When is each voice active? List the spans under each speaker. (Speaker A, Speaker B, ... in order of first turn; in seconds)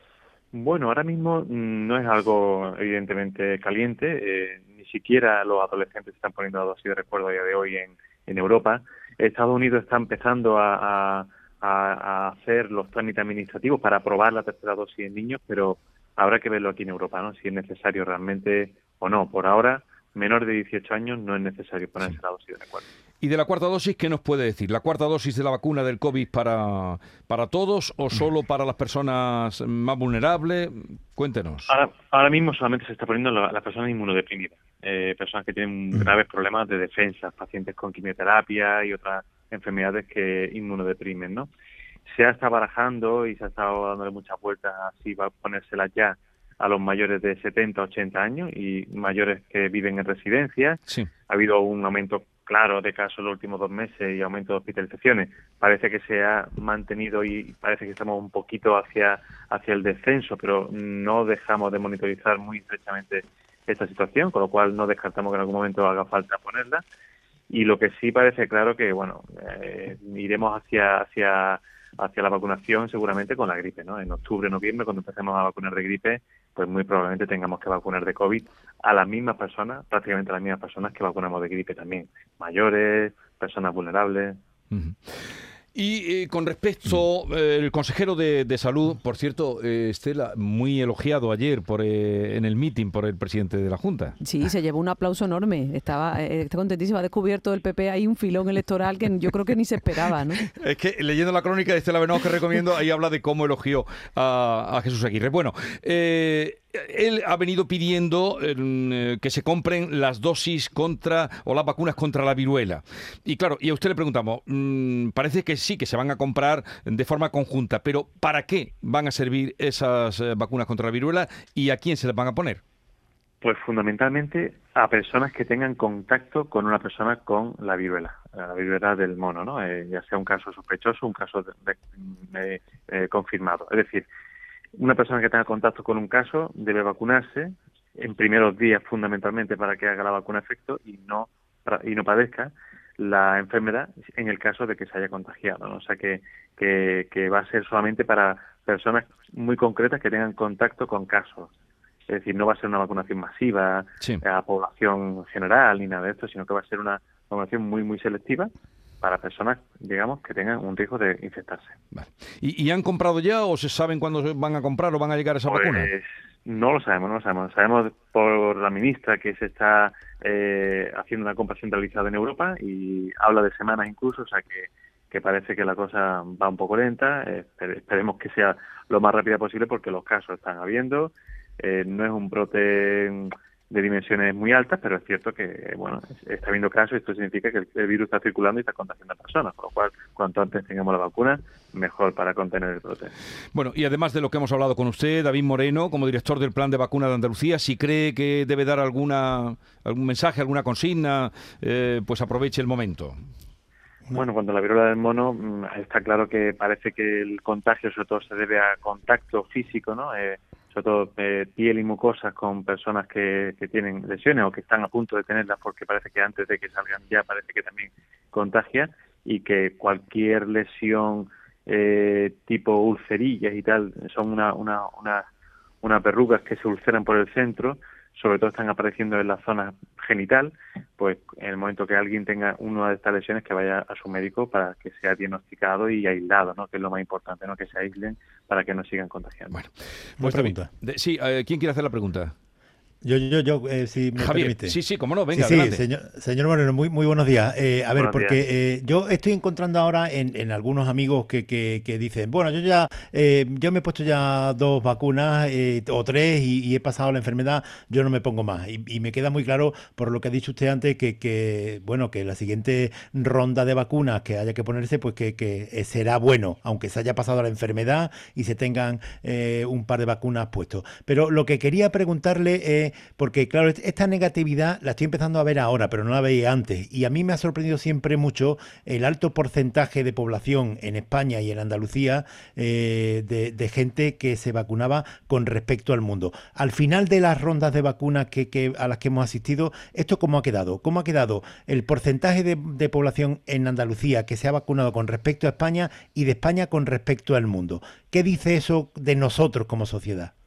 Speaker A: 0.5-22.9, 31.7-41.5, 42.1-66.8, 67.5-84.4, 123.4-134.1, 134.8-151.5, 152.1-158.5, 159.0-161.8, 165.5-193.1, 204.1-225.2, 225.8-239.6, 248.0-248.4
Speaker B: 23.2-31.7, 84.7-85.0, 85.8-94.2, 100.4-122.6, 161.9-165.9, 193.5-203.2, 239.5-242.3, 244.2-245.8
Speaker C: 94.2-100.4
Speaker D: 240.2-240.7, 243.0-244.8, 245.3-300.3